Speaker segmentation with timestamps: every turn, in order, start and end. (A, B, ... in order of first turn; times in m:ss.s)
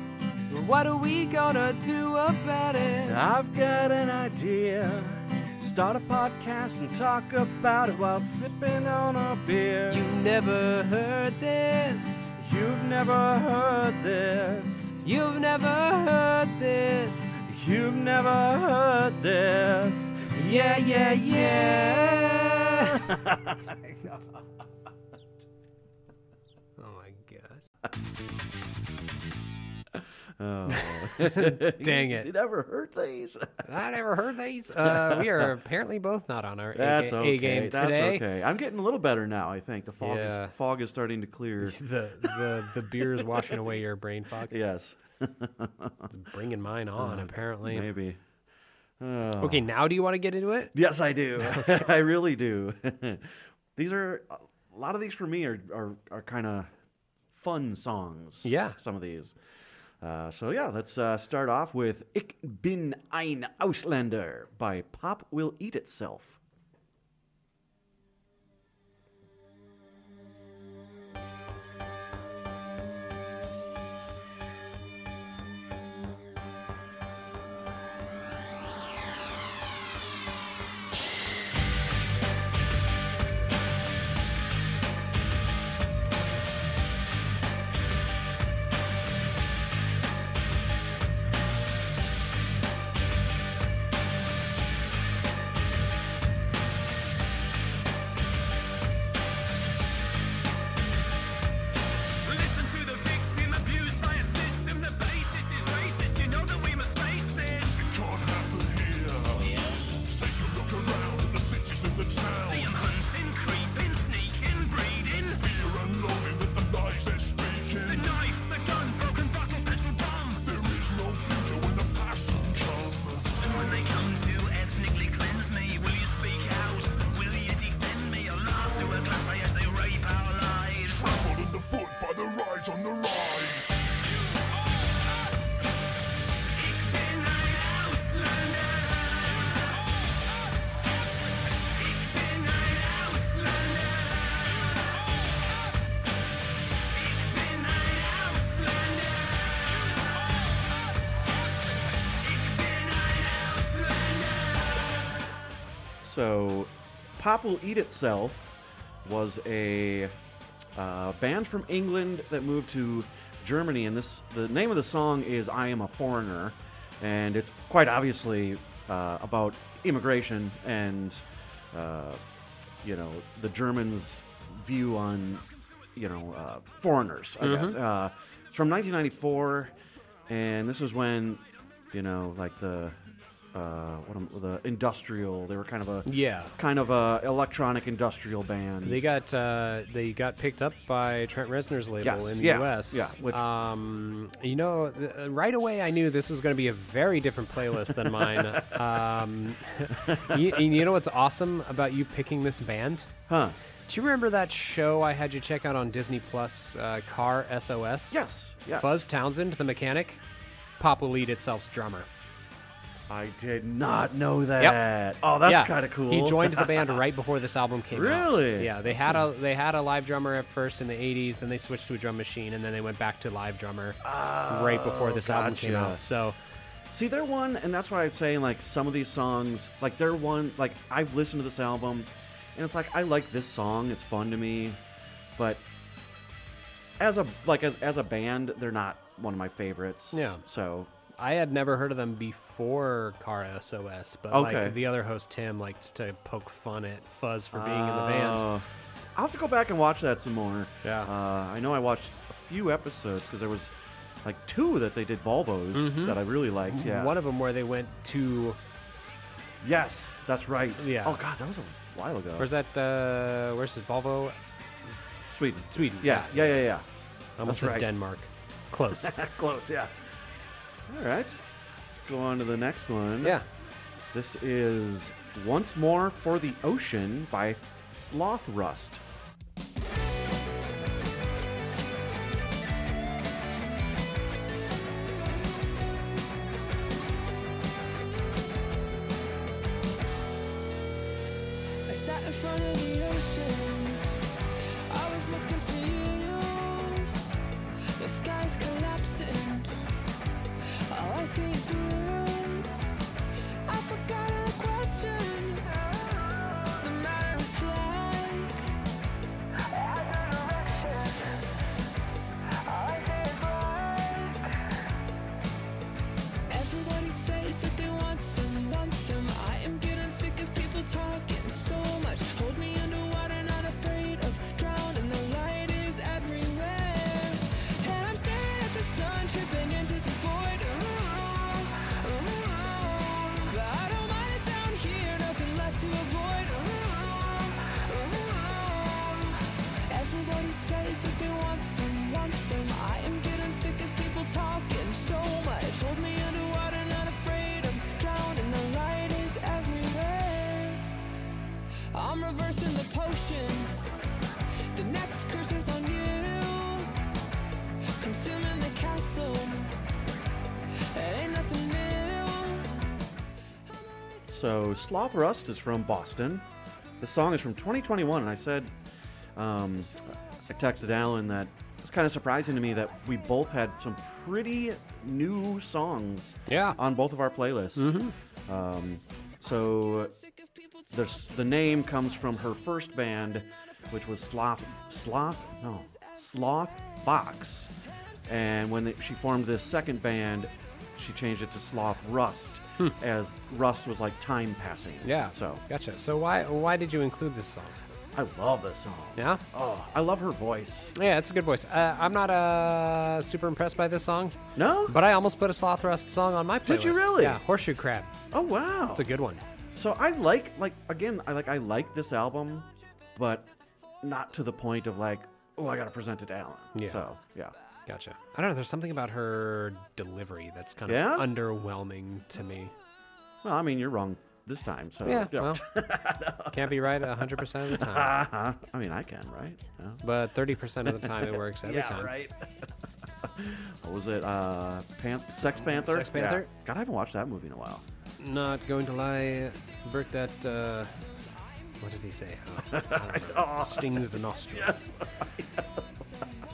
0:00.5-0:03.2 A
0:03.0-0:10.1 B
0:09.9-0:12.3 A
0:12.4-0:14.9 B
0:15.0-0:17.4 A
0:17.4-0:20.3 B
0:20.3-0:23.1 A
0:21.3-0:22.0 B
0:22.7-0:24.2 B
0:26.8-0:27.6 A
0:29.9-0:33.8 B
0:30.7-0:32.3 A
0:33.6-0:38.2 A
0:34.8-0:35.6 B
0:36.7-0:42.4 B
0:40.0-0:40.5 A
0:41.6-0:44.5 A
0:43.0-0:43.6 B
0:44.5-0:46.1 B
0:46.1-0:47.9 A
0:47.0-0:48.2 B
0:49.0-0:49.7 B
0:49.4-0:50.7 A
0:50.7-0:56.7 B
0:51.4-0:51.8 A
0:57.3-0:59.4 B
0:58.4-0:58.8 A
1:00.0-1:06.4 B
1:42.2-1:47.8 C
1:47.7-1:53.0 D
1:52.3-1:55.4 C
1:55.3-1:58.2 D
1:57.8-2:00.4 C
2:00.4-2:03.4 D
2:03.4-2:11.1 C
2:10.8-2:13.8 D
2:16.6-2:19.7 C
2:21.8-2:24.7 C
2:27.0-2:29.4 C
2:32.2-2:34.7 C
2:36.0-2:38.5 B
2:39.0-2:40.1 B
2:40.7-2:52.2 B
2:52.8-2:59.7 B
2:57.4-2:57.8 A
3:00.3-3:03.0 B
3:03.5-3:09.0 B
3:06.0-3:06.5 A
3:08.8-3:23.1 A
3:12.0-3:13.5 B
3:17.8-3:18.8 B
3:19.9-3:20.8 B
3:23.3-3:23.6 B
3:23.9-3:30.2 A
3:28.1-3:29.0 B
3:30.8-3:32.1 A
3:33.1-3:37.0 B
3:35.4-3:46.4 A
3:37.9-3:39.3 B
3:44.0-3:46.0 B
3:46.9-3:54.8 B
3:55.4-3:55.6 B
3:57.0-4:00.9 B
4:00.1-4:00.4 A
4:01.2-4:08.5 A
4:04.3-4:04.8 B
4:07.5-4:13.7 B
4:10.8-4:11.1 A
4:14.2-4:17.2 B
4:15.7-4:18.6 A
4:19.6-4:22.5 B
4:20.8-4:21.2 A
4:22.4-4:24.4 A
4:25.3-4:26.8 B
4:25.7-4:26.6 A
4:27.4-4:29.1 A
4:27.4-4:27.9 B
4:28.9-4:29.9 B
4:30.9-4:33.4 B
4:34.1-4:39.0 B
4:51.9-4:54.0 E
4:54.9-4:57.1 E
4:58.0-4:59.7 E
5:00.9-5:02.7 E
5:03.7-5:08.6 E
5:09.8-5:11.2 E
5:12.6-5:14.4 E
5:16.5-5:50.8 E
5:51.9-5:53.7 E
5:54.7-5:56.9 E
5:58.0-5:59.7 E
6:00.9-6:02.7 E
6:04.3-6:06.4 B
6:07.0-6:08.7 B
6:09.4-6:20.1 B
6:16.5-6:16.8 A
6:17.8-6:18.1 A
6:20.9-6:27.7 B
6:28.2-6:35.6 B
6:35.0-6:37.8 A
6:38.1-6:40.9 B
6:39.2-6:39.4 A
6:40.9-6:48.1 A
6:44.6-6:45.0 B
6:46.6-6:47.4 B
6:48.3-6:49.1 B
6:48.9-6:49.4 A
6:49.8-6:53.5 B
6:54.0-6:57.5 B
6:56.7-6:57.0 A
6:57.9-7:02.7 A
7:00.8-7:01.3 B
7:03.4-7:10.0 B
7:05.0-7:05.6 A
7:06.5-7:08.2 A
7:10.0-7:12.1 A
7:10.8-7:12.7 B
7:13.2-7:17.8 B
7:15.5-7:16.5 A
7:18.2-7:20.9 A
7:21.8-7:25.0 A
7:22.7-7:25.9 B